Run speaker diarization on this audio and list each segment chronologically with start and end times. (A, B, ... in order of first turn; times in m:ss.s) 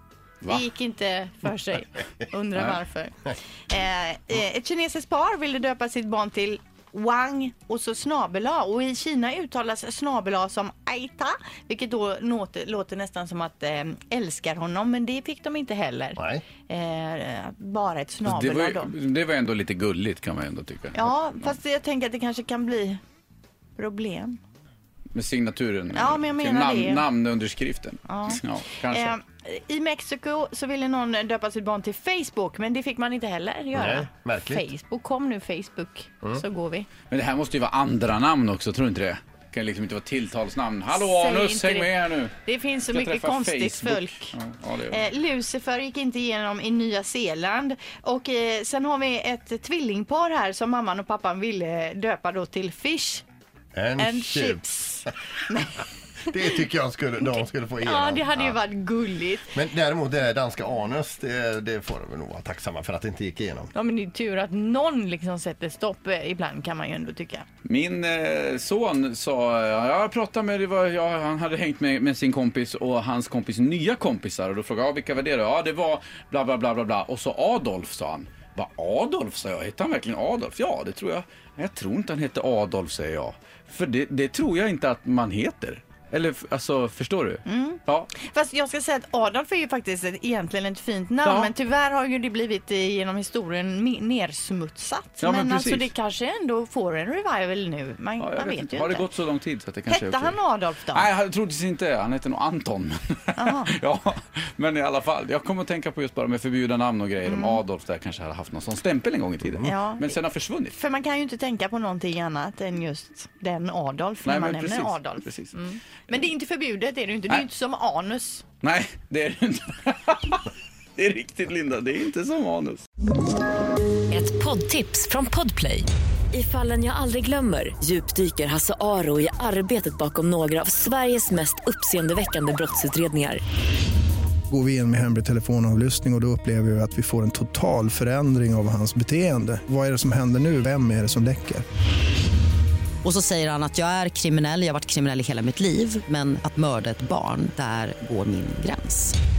0:00.4-0:18.9 A
0:16.2-0:16.4 B
0:18.3-0:21.5 C
0:20.9-0:23.0 A
0:23.8-0:24.4 A
0:25.2-0:29.1 C
0:25.9-0:27.1 A
0:28.1-0:36.9 A
0:33.7-0:34.7 B
0:37.1-0:42.3 C
0:40.9-0:44.4 A
0:42.9-0:45.0 C
0:44.9-0:53.2 A
0:53.7-0:54.6 B
0:54.0-0:56.4 A
0:56.3-0:58.6 B
0:57.8-0:59.6 A
0:59.5-1:03.7 B
1:03.7-1:07.4 A
1:07.6-1:28.1 C
1:27.5-1:39.1 A
1:31.2-1:31.5 C
1:35.2-1:35.9 C
1:38.2-1:40.4 C
1:39.9-1:41.1 A
1:40.9-1:50.8 C
1:43.4-1:43.7 A
1:47.3-1:47.6 A
1:49.6-1:50.2 A
1:50.7-1:58.4 A
1:54.2-1:55.5 C
1:58.6-2:02.8 C
2:04.1-2:13.4 D
2:14.5-2:21.6 E
2:23.0-2:29.2 F